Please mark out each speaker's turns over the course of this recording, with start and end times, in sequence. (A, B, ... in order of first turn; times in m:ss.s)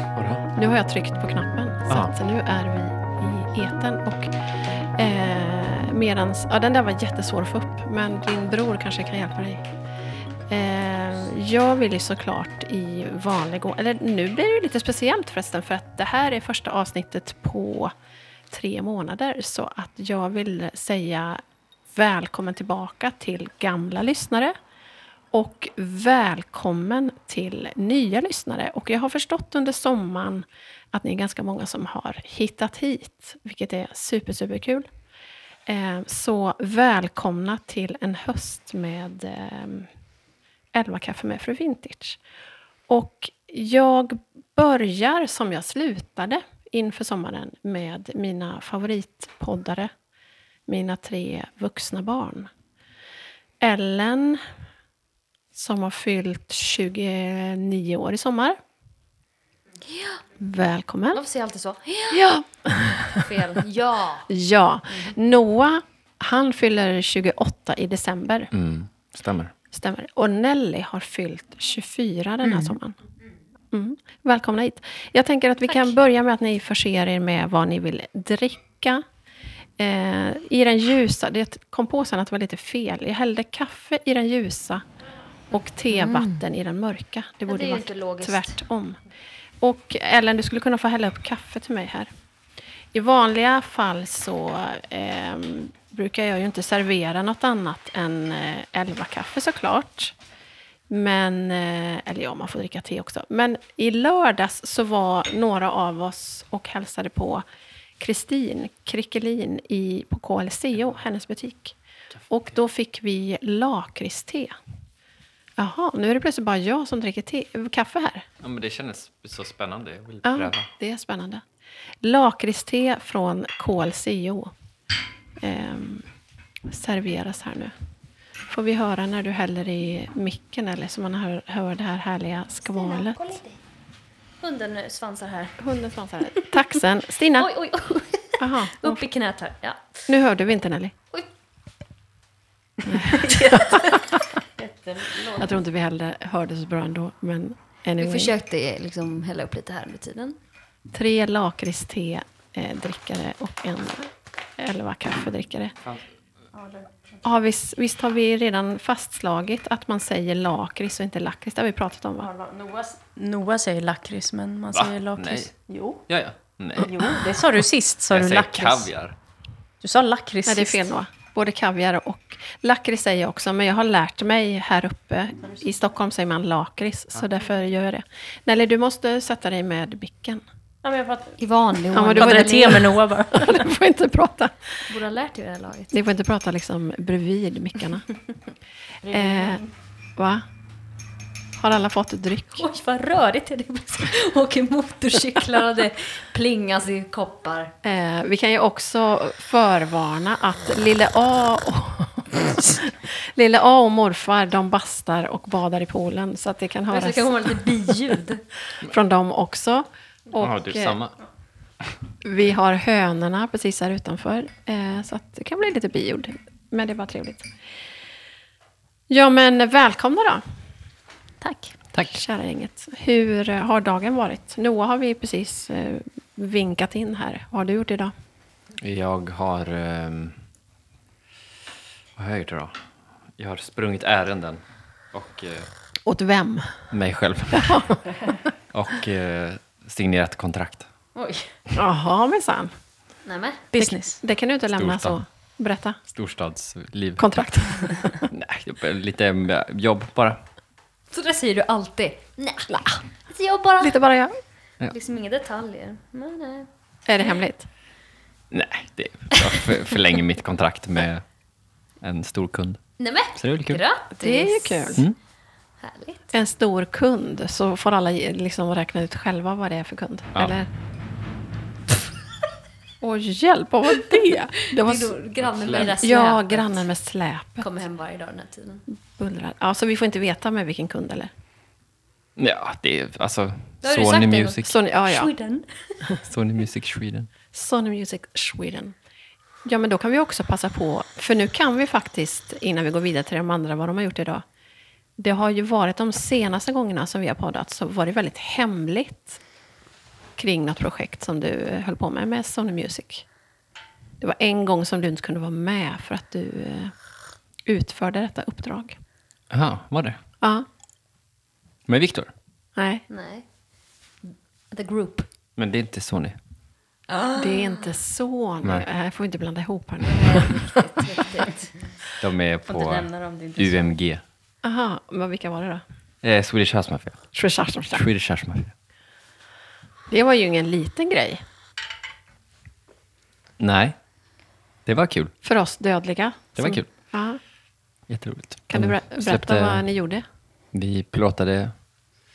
0:00.2-0:00.4 A
0:00.5-0:04.3 B
0:04.9-0:09.7 B
0:10.5-0:17.9 B
0:18.5-0:21.4 B
0:21.9-0:24.5 B
0:25.3-0:34.9 B
0:35.6-0:39.9 B
0:40.7-0:42.2 B
0:42.9-0:49.9 B
0:50.7-0:52.5 B
0:53.6-0:54.4 B
0:55.5-0:58.6 B
0:59.8-1:00.2 C
1:00.4-1:01.2 B
1:01.1-1:02.3 C
1:02.1-1:03.3 B
1:03.1-1:04.3 C
1:04.3-1:08.5 B
1:08.5-1:09.5 A
1:09.7-1:13.0 B
1:12.4-1:12.8 D
1:13.7-1:19.0 B
1:19.8-1:24.8 B
1:25.5-1:29.0 B
1:27.4-1:28.6 C
1:29.6-1:32.1 B
1:32.9-1:40.1 B
1:40.9-1:47.4 B
1:48.0-1:51.8 B
1:52.3-1:54.5 B
1:55.6-1:58.2 B
1:58.4-2:00.7 A
2:00.2-2:01.4 B
2:02.0-2:04.5 B
2:05.4-2:06.1 B
2:06.6-2:07.7 B
2:08.5-2:13.2 B
2:12.6-2:13.6 C
2:14.4-2:15.5 D
2:14.4-2:15.4 C
2:15.6-2:17.5 B
2:17.3-2:20.0 C
2:18.4-2:19.0 B
2:20.1-2:20.9 B
2:22.8-2:23.8 B
2:23.0-2:24.2 C
2:24.6-2:25.5 D
2:25.3-2:28.3 B
2:28.0-2:30.4 C
2:30.9-2:35.7 B
2:36.5-2:37.2 D
2:37.2-2:42.3 B
2:42.2-2:46.0 D
2:44.7-2:45.5 A
2:46.0-2:47.3 A
2:46.8-2:48.9 D
2:48.1-2:49.1 A
2:49.8-2:50.8 D
2:50.4-3:00.4 B
3:00.8-3:01.4 D
3:01.4-3:02.9 C
3:01.9-3:04.8 B
3:02.1-3:03.7 D
3:04.8-3:05.9 C
3:05.9-3:08.1 B
3:09.0-3:09.7 D
3:09.1-3:09.6 B
3:10.2-3:10.4 B
3:11.6-3:12.6 B
3:12.6-3:17.7 C
3:17.8-3:28.1 B
3:26.9-3:28.4 C
3:28.8-3:31.0 B
3:30.4-3:31.2 A
3:32.2-3:37.5 B
3:39.1-3:40.4 B
3:41.4-3:41.7 D
3:41.9-3:42.2 A
3:42.0-3:48.1 B
3:48.8-3:50.4 A
3:52.2-3:52.8 A
3:53.4-3:54.6 A
3:55.1-3:55.7 A
3:56.0-3:56.8 B
3:56.9-3:57.9 A
3:57.5-3:58.0 B
3:58.7-4:00.9 A
4:01.1-4:01.5 D
4:01.7-4:02.7 B
4:03.2-4:03.6 C
4:03.7-4:04.2 D
4:03.7-4:06.0 B
4:04.7-4:05.2 A
4:06.1-4:07.4 A
4:07.2-4:08.3 B
4:08.3-4:10.4 A
4:11.1-4:14.0 C
4:12.7-4:13.0 B
4:13.8-4:14.4 B
4:14.9-4:16.7 C
4:17.0-4:17.6 B
4:18.5-4:21.2 A
4:22.0-4:22.8 A
4:23.0-4:25.0 C
4:23.3-4:23.8 A
4:24.2-4:25.0 B
4:25.8-4:26.2 C
4:26.3-4:30.7 B
4:33.0-4:35.2 B
4:34.8-4:36.9 C
4:35.4-4:35.9 A
4:35.8-4:37.7 B
4:37.6-4:38.8 C
4:39.1-4:41.3 B
4:42.4-4:44.8 A
4:43.8-4:46.0 C
4:44.6-4:45.3 B
4:46.2-4:47.3 A
4:47.5-4:49.0 B
4:49.6-4:54.4 B
4:55.2-4:59.4 B
5:00.4-5:03.2 B
5:04.2-5:06.9 B
5:07.6-5:09.0 B
5:09.5-5:10.2 A
5:10.4-5:10.7 B
5:11.9-5:12.3 A
5:12.8-5:13.0 B
5:13.1-5:13.5 C
5:14.7-5:15.3 C
5:15.6-5:16.4 A
5:17.1-5:18.0 C
5:17.4-5:20.7 B
5:20.0-5:21.9 C
5:22.2-5:24.2 A
5:22.7-5:24.0 D
5:24.6-5:25.8 B
5:26.2-5:27.3 A
5:27.3-5:28.0 B
5:27.9-5:28.7 A
5:30.1-5:31.4 B
5:33.6-5:34.0 A
5:34.8-5:35.3 A
5:35.4-5:37.4 B
5:36.6-5:36.9 A
5:38.1-5:39.8 A
5:38.7-5:40.2 B
5:40.7-5:41.7 A